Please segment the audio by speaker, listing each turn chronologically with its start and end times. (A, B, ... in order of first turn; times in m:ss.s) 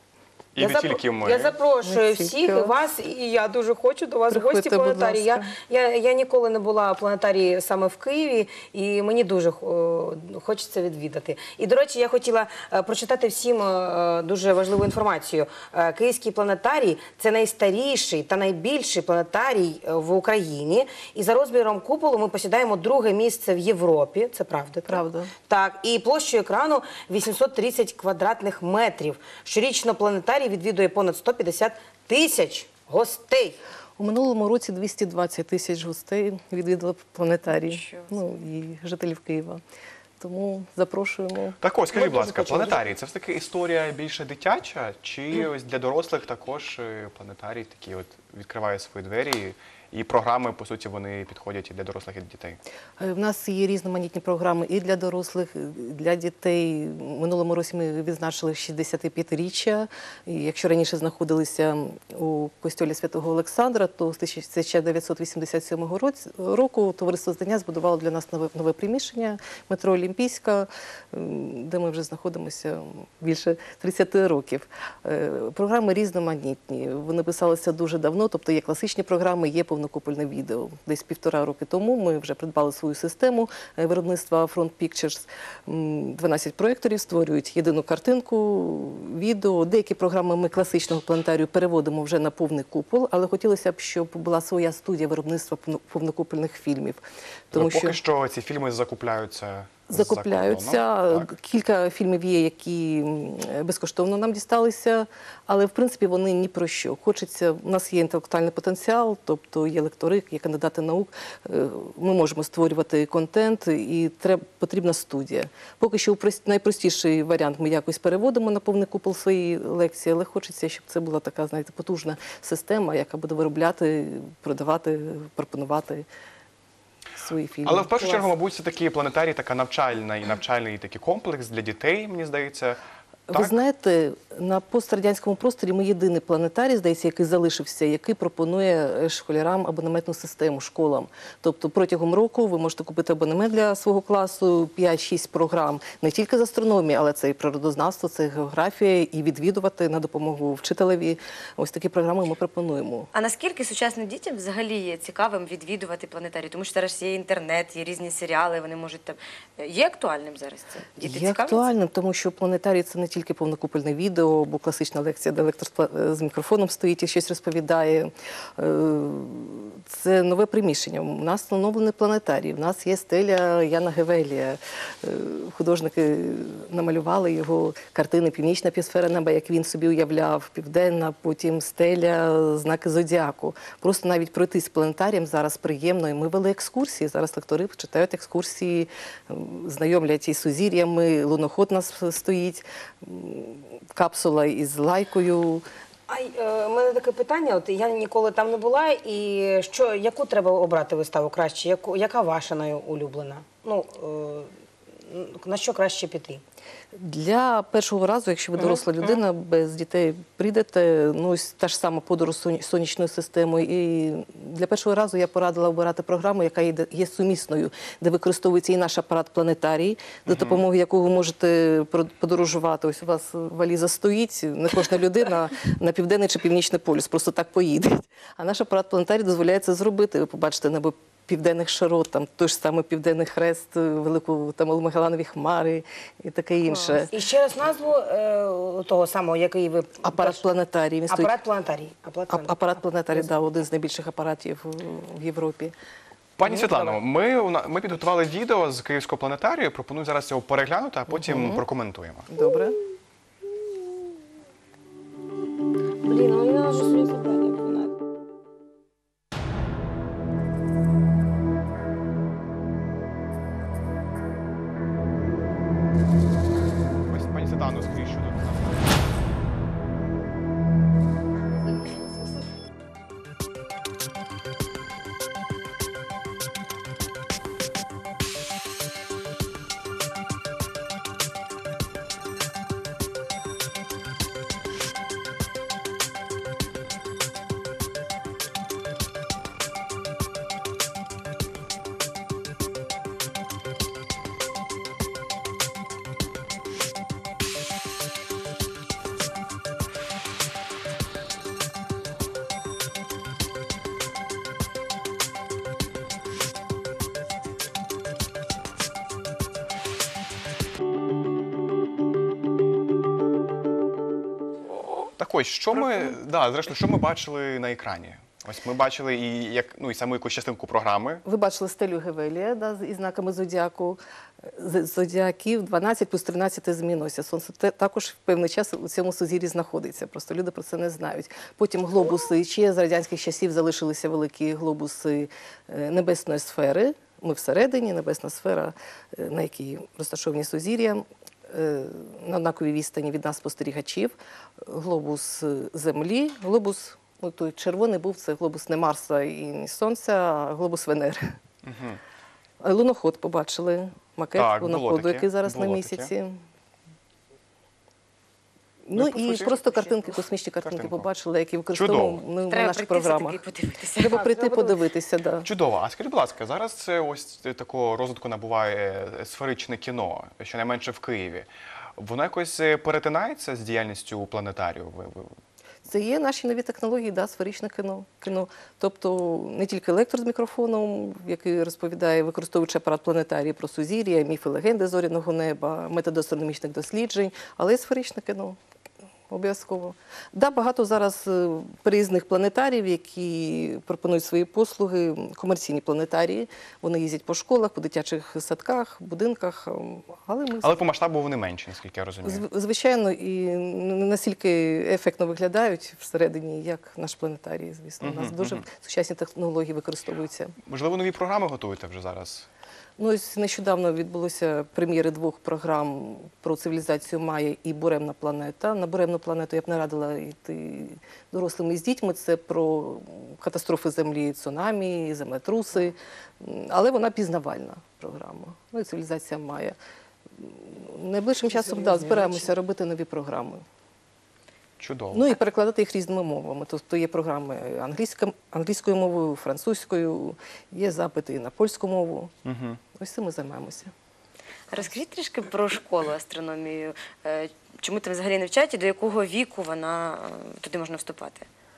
0:00.6-0:01.5 A
0:00.6-0:33.6 B
0:01.8-0:02.8 C
0:04.3-0:05.5 C
0:24.9-0:25.3 C
0:34.0-0:39.6 C
0:37.5-0:38.3 D
0:40.2-0:42.9 C
0:41.6-0:52.6 A
0:53.0-1:38.0 C
1:37.5-1:41.3 A
1:39.9-2:06.0 C
2:07.2-2:08.3 C
2:07.6-2:12.8 A
2:13.3-2:33.1 C
2:13.3-2:13.6 A
2:33.1-2:41.7 D
2:41.0-3:15.6 C
3:16.1-3:24.5 B
3:25.1-3:26.4 B
3:26.9-3:57.1 C
3:40.3-3:40.6 A
3:57.1-4:00.4 B
4:00.0-4:01.3 C
4:01.1-4:02.5 B
4:02.3-4:05.7 C
4:03.1-4:03.4 B
4:06.4-4:12.3 A
4:06.4-4:07.0 B
4:11.1-4:11.6 C
4:12.3-4:12.8 C
4:16.0-4:17.9 B
4:27.1-4:28.9 A
5:15.2-5:21.2 A
5:21.2-5:24.0 C
5:24.5-5:51.2 C
5:51.6-5:52.0 A
5:52.6-5:56.4 C
5:54.4-5:56.1 A
5:58.8-6:03.4 C
5:58.9-6:01.1 A
6:01.7-6:02.2 A
6:02.5-6:04.2 D
6:04.0-6:05.5 C
6:04.1-6:04.8 B
6:05.4-6:15.3 A
6:15.9-6:28.6 C
6:29.3-6:40.8 C
6:40.6-6:42.4 A
6:42.2-6:50.5 C
6:48.0-6:48.6 A
6:50.6-6:52.5 A
6:53.0-7:09.8 C
7:10.4-7:13.6 C
7:11.5-7:12.5 B
7:14.8-7:15.3 A
7:15.1-7:22.3 C
7:22.4-7:22.8 A
7:23.0-7:23.9 C
7:24.7-7:31.4 D